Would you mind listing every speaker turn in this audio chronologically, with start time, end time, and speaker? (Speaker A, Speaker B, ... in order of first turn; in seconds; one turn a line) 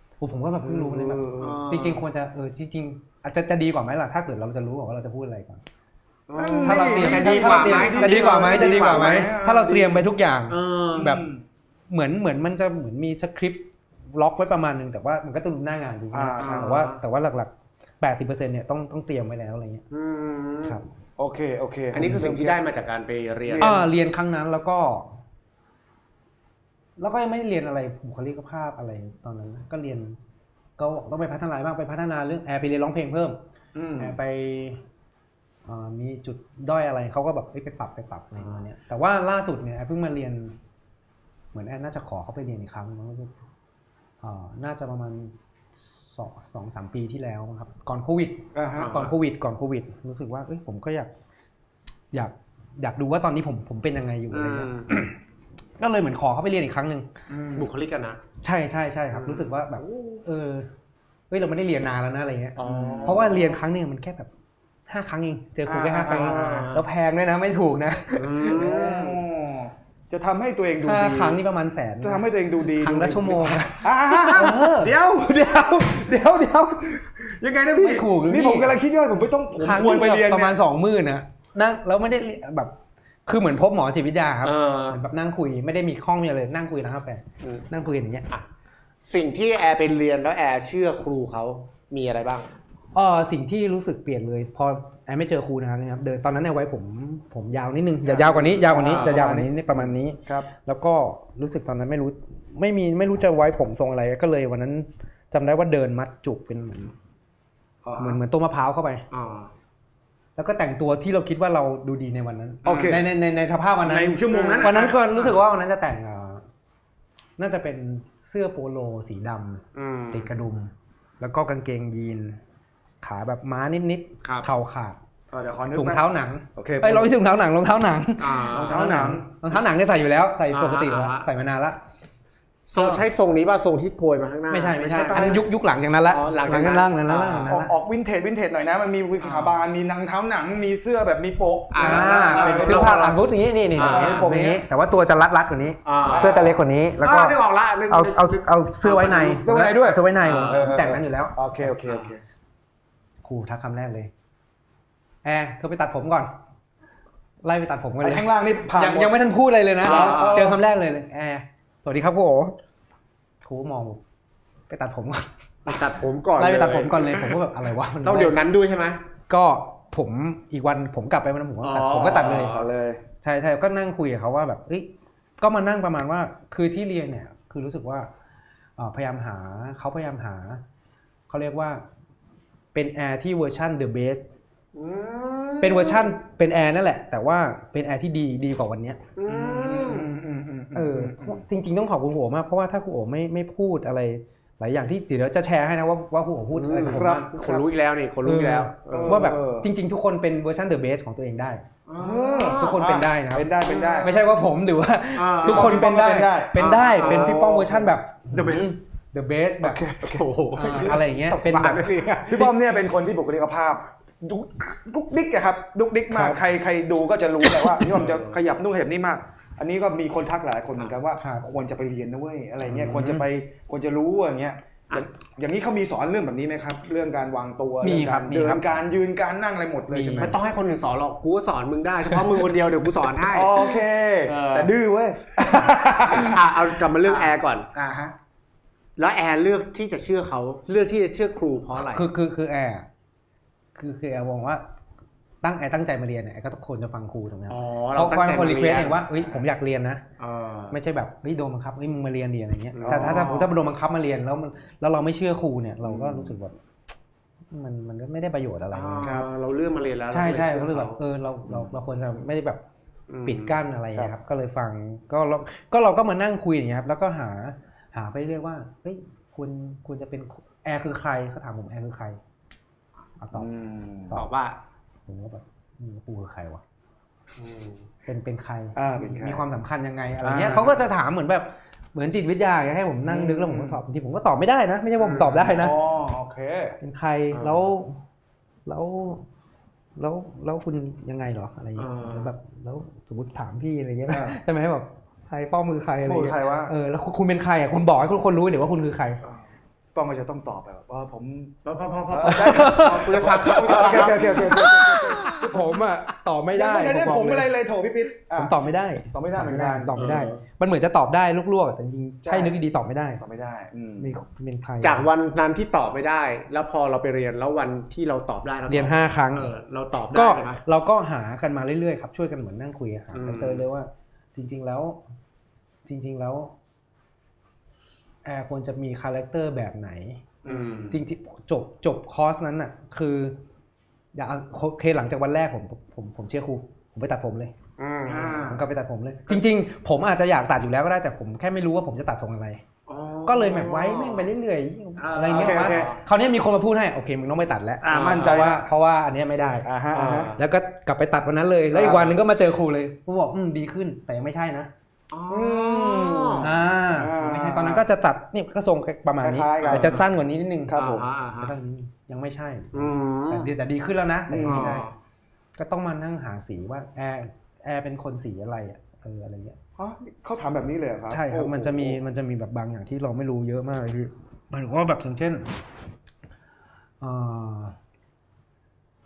Speaker A: 0.2-5.6
Speaker B: 0.6-1.6
Speaker C: 1.4-2.0
Speaker C: 6.3-9.3
Speaker B: 6.3-10.1
Speaker A: 6.7-11.2
Speaker C: 10.5-11.1
Speaker B: 10.9-11.4
Speaker A: 11.9-19.8
Speaker B: 16.1-16.9
Speaker C: 16.4-17.0
Speaker C: 19.9-20.8
Speaker B: 21.2-22.7
Speaker C: 21.9-23.8
Speaker B: 23.4-23.9
Speaker A: 23.6-25.1
Speaker A: 27.0-30.2
Speaker A: 30.8-33.4
Speaker B: 33.7-34.1
Speaker A: 34.0-34.8
Speaker A: 35.6-40.5
Speaker A: 41.5-43.3
Speaker A: 44.2-45.3
Speaker A: 45.9-51.1
Speaker B: 48.5-48.9
Speaker C: 48.8-49.1
Speaker A: 52.1-55.1
Speaker C: 54.3-54.9
Speaker A: 55.8-57.1
Speaker B: 57.3-57.7
Speaker C: 57.5-58.2
Speaker A: 58.4-60.7
Speaker C: 59.1-59.6
Speaker A: 61.3-64.3
Speaker C: 62.6-63.3
Speaker B: 62.6-63.5
Speaker A: 64.9-68.7
Speaker B: 65.7-66.7
Speaker C: 66.1-66.8
Speaker C: 68.2-69.2
Speaker B: 68.4-71.4
Speaker A: 70.8-74.9
Speaker B: 72.0-80.6
Speaker A: 77.8-78.8
Speaker A: 79.6-82.7
Speaker A: 83.2-88.3
Speaker C: 84.4-85.0
Speaker C: 89.0-92.5
Speaker A: 92.9-106.9
Speaker B: 98.0-100.5
Speaker C: 98.8-99.2
Speaker B: 107.8-108.2
Speaker A: 108.0-109.0
Speaker C: 109.1-109.5
Speaker A: 110.3-116.4
Speaker B: 112.6-113.1
Speaker C: 112.6-113.0
Speaker B: 113.8-115.3
Speaker C: 114.3-114.8
Speaker A: 117.4-122.4
Speaker C: 119.7-120.3
Speaker A: 123.0-125.0
Speaker B: 125.3-126.0
Speaker A: 125.7-131.8
Speaker B: 126.5-127.1
Speaker C: 128.2-129.0
Speaker B: 128.5-129.2
Speaker C: 130.5-131.3
Speaker C: 132.7-135.4
Speaker A: 132.8-133.1
Speaker A: 134.5-137.7
Speaker B: 135.0-135.4
Speaker C: 136.1-137.5
Speaker B: 137.4-143.0
Speaker C: 139.2-139.6
Speaker C: 141.7-144.3
Speaker A: 141.8-151.7
Speaker B: 143.8-144.6
Speaker C: 145.8-146.4
Speaker B: 146.0-146.5
Speaker C: 147.0-149.4
Speaker B: 149.4-152.2
Speaker C: 150.2-150.7
Speaker A: 153.2-154.1
Speaker A: 155.2-156.3
Speaker A: 157.4-162.5
Speaker B: 158.0-159.2
Speaker B: 159.8-160.6
Speaker C: 159.8-160.5
Speaker A: 163.4-164.0
Speaker A: 164.7-165.2
Speaker C: 165.7-167.4
Speaker A: 166.4-168.4
Speaker C: 168.0-169.0
Speaker A: 169.3-172.7
Speaker C: 171.6-172.7
Speaker B: 172.1-173.0
Speaker A: 173.2-174.9
Speaker A: 175.4-178.1
Speaker A: 178.8-180.6
Speaker A: 181.3-181.8
Speaker A: 182.7-184.2
Speaker C: 184.7-186.1
Speaker A: 185.6-189.0
Speaker C: 189.2-190.1
Speaker B: 189.3-191.4
Speaker A: 190.7-197.3
Speaker C: 196.5-199.3
Speaker B: 196.9-197.6
Speaker A: 198.2-201.6
Speaker B: 198.9-199.7
Speaker C: 201.9-202.8
Speaker B: 201.9-204.1
Speaker A: 202.5-203.5
Speaker C: 203.6-204.1
Speaker A: 204.0-209.8
Speaker C: 205.2-205.9
Speaker B: 205.4-208.6
Speaker C: 206.5-207.4
Speaker C: 208.3-208.7
Speaker B: 209.6-211.0
Speaker C: 210.0-212.5
Speaker A: 210.5-211.8
Speaker B: 212.3-230.4
Speaker A: 216.1-216.4
Speaker C: 217.5-218.4
Speaker A: 221.2-221.4
Speaker A: 222.6-223.2
Speaker A: 227.8-228.9
Speaker A: 229.9-230.3
Speaker C: 230.2-233.7
Speaker B: 233.2-238.1
Speaker C: 234.2-234.7
Speaker C: 235.5-237.7
Speaker C: 239.0-242.1
Speaker A: 241.8-242.8
Speaker A: 243.8-244.6
Speaker A: 245.4-250.0
Speaker C: 247.5-249.0
Speaker C: 250.2-250.8
Speaker A: 250.7-256.5
Speaker C: 252.7-253.5
Speaker B: 252.8-253.3
Speaker C: 255.8-256.3
Speaker A: 257.5-259.1
Speaker C: 258.7-261.7
Speaker B: 259.0-259.3
Speaker A: 260.1-262.6
Speaker C: 263.1-263.6
Speaker A: 263.2-272.2
Speaker A: 273.2-273.5
Speaker B: 273.3-274.2
Speaker C: 274.1-274.6
Speaker A: 275.1-276.6
Speaker C: 277.4-277.8
Speaker A: 278.1-285.8
Speaker B: 278.7-279.5
Speaker B: 280.2-280.8
Speaker B: 283.0-283.8
Speaker C: 285.0-285.6
Speaker B: 285.5-286.8
Speaker A: 286.8-288.0
Speaker C: 287.3-287.7
Speaker A: 288.6-289.2
Speaker A: 289.9-299.2
Speaker C: 291.8-292.3
Speaker B: 294.1-294.4
Speaker B: 296.0-296.7
Speaker B: 299.9-301.5
Speaker C: 301.6-304.7
Speaker B: 302.1-305.8
Speaker A: 302.2-307.5
Speaker B: 306.5-308.6
Speaker A: 308.4-313.2
Speaker B: 309.1-310.0
Speaker C: 309.9-310.4
Speaker B: 312.2-312.5
Speaker B: 313.2-314.1
Speaker A: 314.0-315.1
Speaker C: 314.8-320.6
Speaker A: 318.7-319.5
Speaker A: 320.1-325.0
Speaker C: 323.1-323.6
Speaker A: 325.9-326.5
Speaker A: 328.2-330.2
Speaker C: 330.4-331.0
Speaker B: 330.4-331.0
Speaker A: 330.9-333.4
Speaker A: 334.1-337.5
Speaker C: 337.8-338.5
Speaker B: 338.1-338.7
Speaker A: 338.4-342.6
Speaker C: 342.9-344.3
Speaker A: 343.2-349.7
Speaker C: 345.0-346.0
Speaker B: 345.3-345.9
Speaker B: 347.8-348.6
Speaker C: 347.9-348.6
Speaker B: 349.6-350.3
Speaker C: 349.9-350.4
Speaker A: 350.4-354.7
Speaker B: 351.7-352.2
Speaker C: 355.1-356.5
Speaker B: 355.3-357.9
Speaker A: 356.4-360.8
Speaker B: 359.2-360.0
Speaker C: 359.6-360.1
Speaker B: 360.7-361.1
Speaker C: 360.7-361.5
Speaker A: 361.4-364.8
Speaker C: 362.7-363.5
Speaker B: 364.3-364.9
Speaker C: 364.4-364.9
Speaker A: 365.6-369.6
Speaker B: 369.8-372.0
Speaker A: 371.1-375.5
Speaker A: 377.0-377.8